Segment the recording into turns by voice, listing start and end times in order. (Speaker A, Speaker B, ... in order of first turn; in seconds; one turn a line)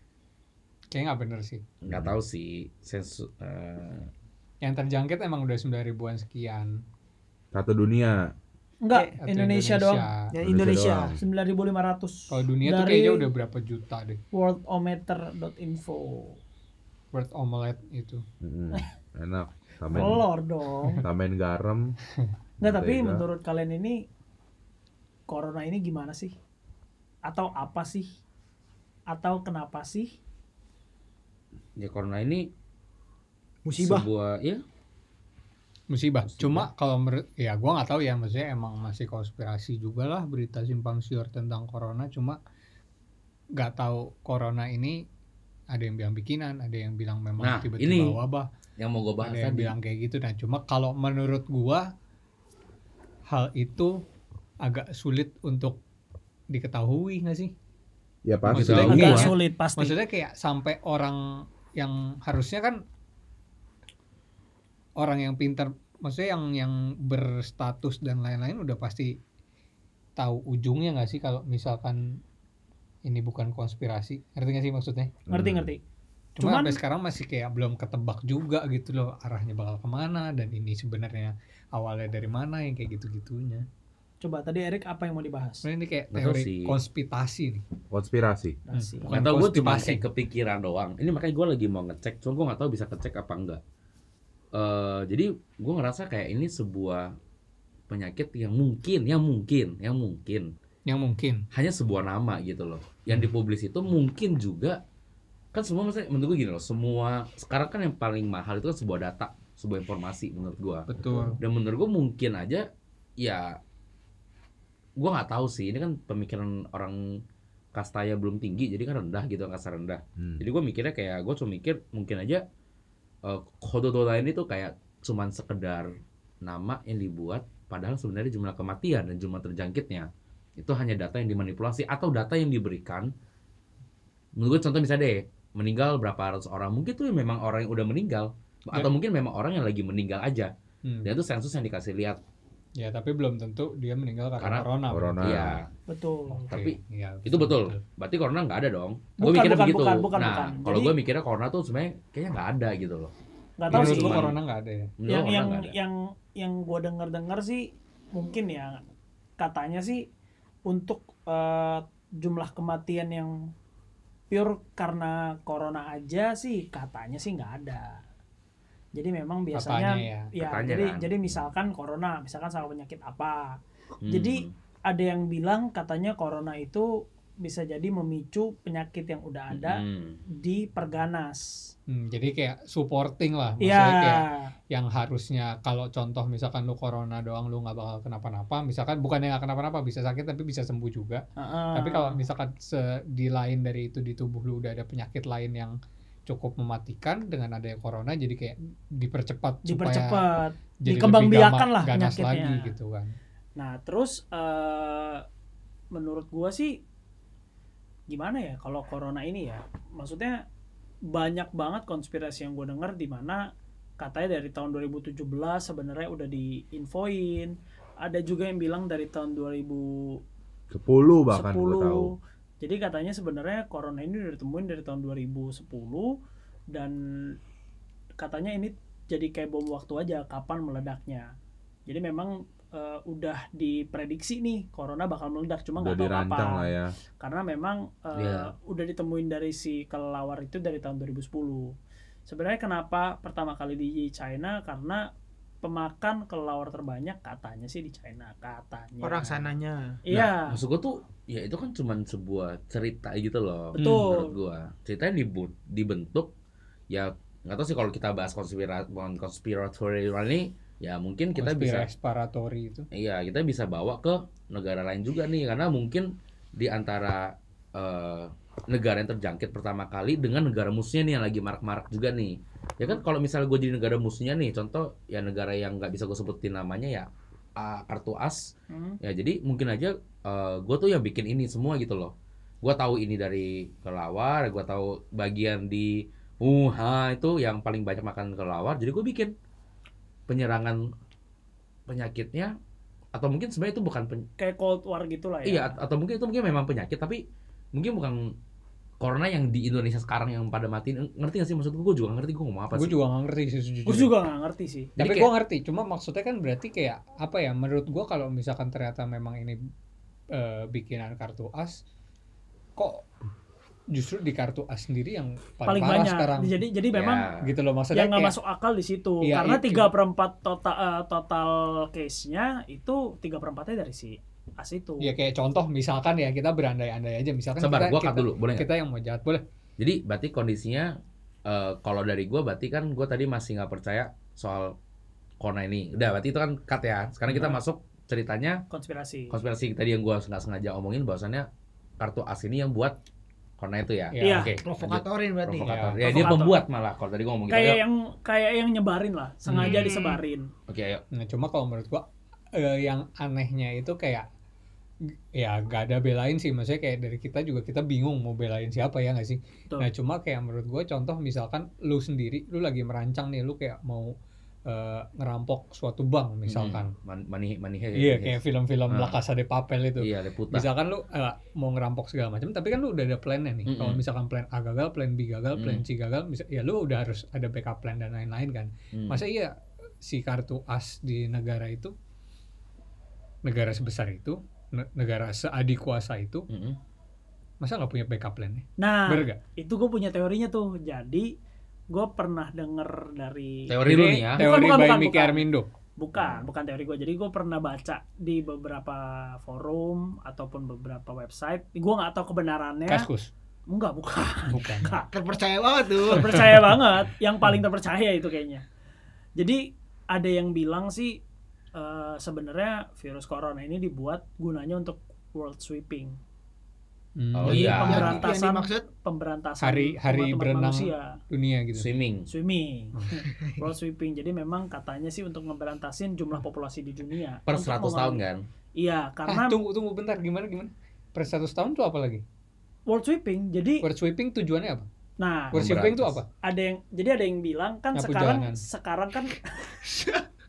Speaker A: 0.9-1.6
Speaker B: 1.8-4.1
Speaker C: 1.9-2.1
Speaker A: 4.6-6.8
Speaker C: 7.5-8.3
Speaker D: 8.8-10.1
Speaker A: 9.2-10.3
Speaker E: 10.3-11.2
Speaker C: 10.4-11.2
Speaker D: 11.2-13.3
Speaker A: 12.3-14.2
Speaker D: 14.3-16.4
Speaker A: 17.1-18.2
Speaker C: 18.4-20.2
Speaker D: 19.9-21.0
Speaker C: 21.0-21.9
Speaker C: 22.6-23.2
Speaker D: 22.6-24.0
Speaker D: 25.3-26.3
Speaker D: 27.2-28.1
Speaker D: 29.1-30.1
Speaker B: 31.8-32.5
Speaker E: 33.6-34.1
Speaker B: 33.8-34.6
Speaker A: 35.9-42.4
Speaker B: 36.2-36.7
Speaker A: 43.6-45.0
Speaker A: 45.7-48.5
Speaker B: 47.4-48.2
Speaker B: 48.8-49.7
Speaker A: 49.2-51.9
Speaker A: 53.3-54.0
Speaker A: 54.6-55.8
Speaker A: 56.5-57.5
Speaker C: 58.2-59.3
Speaker A: 58.5-62.8
Speaker B: 58.5-59.3
Speaker D: 58.8-60.0
Speaker A: 65.0-69.2
Speaker A: 70.2-72.2
Speaker A: 73.0-75.2
Speaker C: 75.3-75.7
Speaker D: 75.3-75.8
Speaker A: 76.4-83.7
Speaker D: 76.4-76.8
Speaker D: 84.2-85.6
Speaker A: 85.6-87.6
Speaker B: 86.1-86.8
Speaker C: 87.9-88.6
Speaker D: 88.7-89.1
Speaker A: 88.7-90.0
Speaker B: 89.0-93.6
Speaker B: 94.5-97.1
Speaker B: 97.9-100.5
Speaker A: 100.9-101.4
Speaker B: 101.5-104.8
Speaker B: 105.5-110.9
Speaker A: 110.9-111.4
Speaker B: 111.4-112.7
Speaker B: 113.2-113.6
Speaker B: 115.0-117.2
Speaker B: 117.7-122.4
Speaker C: 120.2-120.4
Speaker B: 123.2-125.9
Speaker B: 126.4-133.1
Speaker B: 134.3-140.5
Speaker A: 140.8-141.1
Speaker B: 141.0-142.2
Speaker A: 142.8-145.4
Speaker B: 144.4-144.7
Speaker C: 144.9-145.6
Speaker B: 145.2-145.6
Speaker D: 145.9-146.5
Speaker A: 146.3-147.8
Speaker B: 146.5-153.1
Speaker D: 149.2-150.9
Speaker D: 153.6-154.2
Speaker A: 153.7-154.9
Speaker B: 153.7-154.3
Speaker B: 155.0-155.7
Speaker D: 155.1-158.8
Speaker D: 159.4-160.0
Speaker D: 160.7-163.3
Speaker D: 164.3-168.0
Speaker D: 168.9-181.7
Speaker A: 169.5-170.3
Speaker B: 170.4-171.3
Speaker B: 174.0-174.5
Speaker B: 179.5-180.2
Speaker A: 181.9-191.2
Speaker D: 183.6-184.5
Speaker D: 191.4-192.2
Speaker A: 191.7-200.2
Speaker D: 199.6-202.7
Speaker A: 200.8-203.1
Speaker D: 203.6-205.2
Speaker D: 205.9-206.8
Speaker D: 208.1-210.4
Speaker D: 211.1-213.4
Speaker D: 214.0-220.2
Speaker C: 220.7-222.1
Speaker D: 221.3-226.1
Speaker D: 226.7-227.3
Speaker D: 228.2-231.3
Speaker D: 231.9-241.7
Speaker C: 235.8-236.9
Speaker B: 238.1-238.5
Speaker D: 242.3-245.0
Speaker D: 245.6-249.4
Speaker E: 249.0-250.0
Speaker D: 250.0-250.6
Speaker B: 250.1-256.3
Speaker D: 253.7-254.3
Speaker A: 253.8-254.1
Speaker B: 256.9-261.9
Speaker A: 261.4-262.9
Speaker B: 262.9-289.3
Speaker D: 278.7-279.0
Speaker B: 290.3-290.9
Speaker B: 291.9-292.5
Speaker B: 293.1-294.2
Speaker D: 294.4-295.7
Speaker B: 295.4-297.2
Speaker B: 297.7-298.3
Speaker B: 299.0-303.0
Speaker A: 302.7-304.1
Speaker D: 303.9-304.9
Speaker A: 305.0-309.6
Speaker B: 305.0-305.3
Speaker A: 310.3-311.8
Speaker A: 312.8-313.1
Speaker A: 313.9-316.6
Speaker D: 315.6-317.3
Speaker B: 316.9-317.4
Speaker A: 317.4-318.4
Speaker D: 317.9-325.1
Speaker A: 319.2-319.9
Speaker A: 325.0-329.4
Speaker B: 327.6-328.7
Speaker B: 329.8-330.9
Speaker B: 331.4-334.8
Speaker B: 335.4-338.6
Speaker D: 338.7-339.4
Speaker B: 339.3-341.5
Speaker B: 342.0-342.9
Speaker B: 343.6-347.8
Speaker A: 344.1-344.5
Speaker D: 344.2-344.5
Speaker E: 344.6-345.7
Speaker A: 345.6-346.2
Speaker D: 346.0-346.6
Speaker D: 347.5-350.5
Speaker A: 349.4-349.9
Speaker B: 349.6-349.9
Speaker B: 350.7-351.0
Speaker A: 351.1-354.2
Speaker A: 355.3-364.1
Speaker A: 364.7-366.9
Speaker B: 366.5-369.2
Speaker A: 368.0-381.9
Speaker B: 370.0-370.7
Speaker B: 373.6-374.0
Speaker B: 375.6-375.8
Speaker B: 378.9-379.2
Speaker A: 383.4-386.5
Speaker B: 386.5-386.8
Speaker A: 387.6-389.4
Speaker D: 388.8-391.3
Speaker D: 391.9-403.1
Speaker B: 393.7-394.5
Speaker A: 393.8-395.7
Speaker B: 396.1-396.4
Speaker A: 402.9-403.3
Speaker D: 403.7-405.1
Speaker A: 404.5-404.9
Speaker E: 405.1-406.5
Speaker D: 406.0-408.6
Speaker D: 409.4-411.2
Speaker D: 411.7-416.1
Speaker A: 417.2-418.2
Speaker B: 417.4-418.2
Speaker D: 417.5-421.2
Speaker E: 417.8-418.9
Speaker A: 419.6-421.9
Speaker B: 421.8-422.3
Speaker D: 422.3-428.2
Speaker B: 427.5-428.4
Speaker D: 428.8-429.6
Speaker A: 429.3-432.2
Speaker D: 432.9-433.8
Speaker A: 433.8-434.9
Speaker D: 435.2-435.6
Speaker A: 435.5-436.2
Speaker B: 435.5-436.2
Speaker D: 436.4-439.8
Speaker A: 437.9-438.6
Speaker E: 439.9-440.2